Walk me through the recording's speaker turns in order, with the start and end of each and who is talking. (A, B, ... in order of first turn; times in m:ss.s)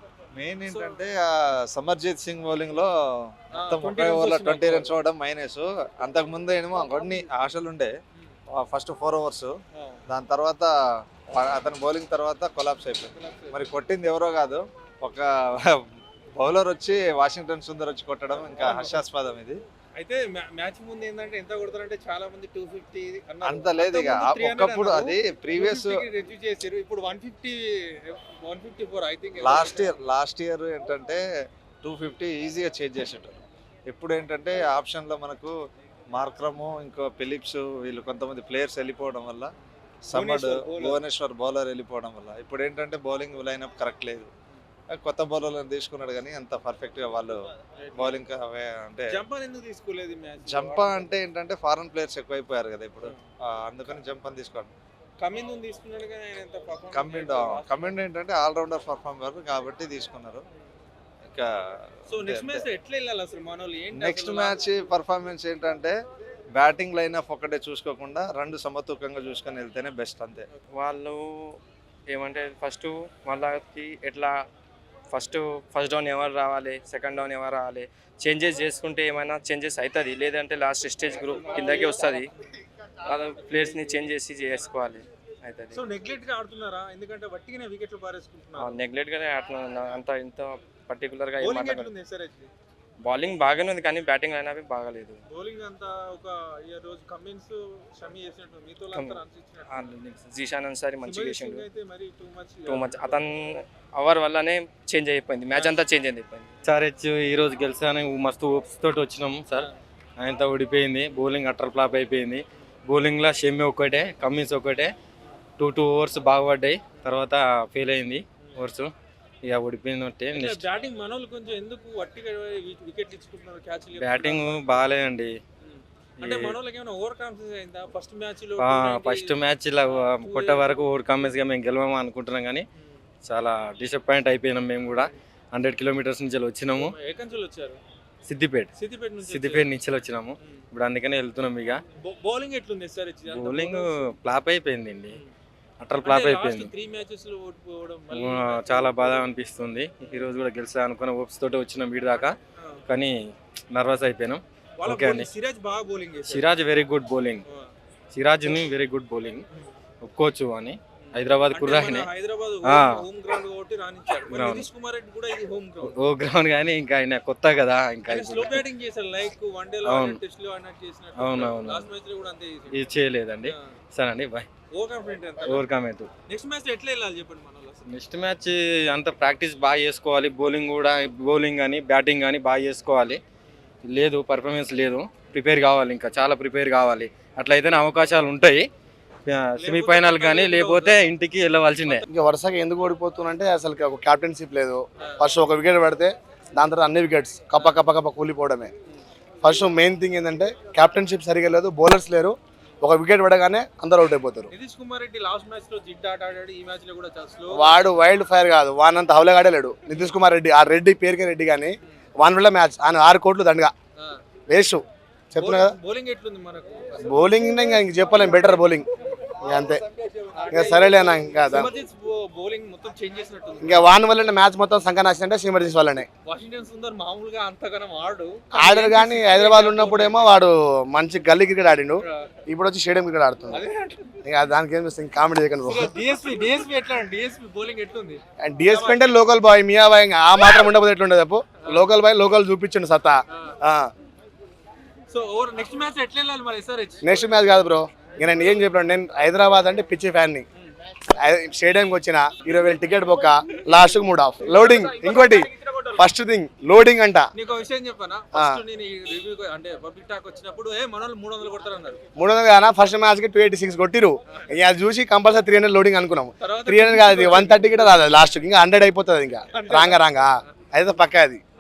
0:00.3-0:02.9 A
0:00.7-0:01.0 B
0:03.5-0:04.9 B
0:03.6-0:07.9 A
0:08.5-0:09.5 A
0:09.8-0:10.0 B
0:10.1-0:10.7 A
0:11.3-0:15.8 A
0:13.1-0:13.6 B
0:16.3-0:19.6 A
0:20.0-0:29.9 B
0:23.4-0:26.1 A
0:29.4-0:31.2 A
0:31.8-0:35.5 A
0:36.1-0:39.5 A
0:40.1-0:44.3 A
0:40.1-0:41.0 B
0:44.9-0:49.2 A
0:47.8-0:48.2 B
0:49.1-0:51.1 B
0:50.5-0:54.7 A
0:55.2-0:57.9 B
0:56.9-1:00.4 A
1:02.1-1:04.6 B
1:02.1-1:02.6 A
1:03.9-1:05.9 A
1:06.6-1:10.4 A
1:10.8-1:11.6 C
1:12.1-1:14.3 C
1:15.1-1:22.3 C
1:21.3-1:22.2 B
1:23.0-1:25.8 C
1:25.7-1:28.8 B
1:28.6-1:31.9 C
1:31.4-1:32.5 B
1:33.0-1:35.2 C
1:35.3-1:39.9 B
1:38.9-1:41.7 C
1:41.0-1:43.3 B
1:42.7-1:46.5 C
1:45.5-1:45.9 B
1:46.6-1:49.7 D
1:50.2-1:54.9 D
1:55.6-1:58.9 D
1:58.4-1:58.7 B
1:59.4-2:00.7 D
2:00.3-2:04.8 B
2:04.0-2:05.4 D
2:05.6-2:09.3 B
2:06.2-2:06.6 D
2:08.6-2:12.6 D
2:10.2-2:10.8 B
2:13.2-2:16.9 D
2:16.8-2:17.8 B
2:18.3-2:18.7 D
2:18.8-2:19.7 B
2:19.2-2:21.8 D
2:22.0-2:23.9 B
2:23.3-2:25.2 D
2:25.8-2:26.7 D
2:26.0-2:29.1 B
2:28.1-2:32.4 D
2:32.6-2:32.8 B
2:32.9-2:33.1 D
2:33.7-2:35.3 D
2:34.8-2:36.5 B
2:36.3-2:37.4 D
2:37.5-2:37.7 B
2:38.1-2:39.4 D
2:40.0-2:42.1 D
2:41.0-2:45.9 B
2:42.6-2:43.0 D
2:44.3-2:44.7 D
2:45.8-2:48.6 D
2:48.1-2:52.9 B
2:49.8-2:50.2 D
2:51.2-2:51.9 D
2:52.7-2:54.5 D
2:53.5-2:53.8 B
2:54.7-2:55.6 B
2:55.5-2:56.1 D
2:56.3-2:57.9 B
2:57.9-3:03.2 D
3:03.9-3:08.6 D
3:09.3-3:12.0 D
3:09.6-3:11.0 B
3:12.1-3:18.7 E
3:15.0-3:15.3 B
3:19.4-3:24.5 E
3:24.5-3:27.9 B
3:27.5-3:33.7 E
3:34.5-3:35.8 E
3:35.4-3:37.2 B
3:37.0-3:38.9 E
3:39.4-3:39.8 E
3:40.3-3:43.8 B
3:40.5-3:41.7 E
3:43.6-3:46.1 E
3:46.3-3:50.3 B
3:48.5-3:53.6 E
3:52.0-3:52.3 B
3:53.5-3:54.2 B
3:54.2-3:55.9 E
3:55.6-3:59.1 B
3:58.4-4:03.9 E
4:01.6-4:01.9 B
4:03.3-4:03.6 B
4:05.1-4:07.1 B
4:07.0-4:10.4 E
4:11.2-4:17.3 E
4:14.4-4:16.0 B
4:17.3-4:22.0 B
4:18.3-4:18.6 E
4:22.2-4:31.4 E
4:26.4-4:28.0 B
4:29.5-4:30.0 B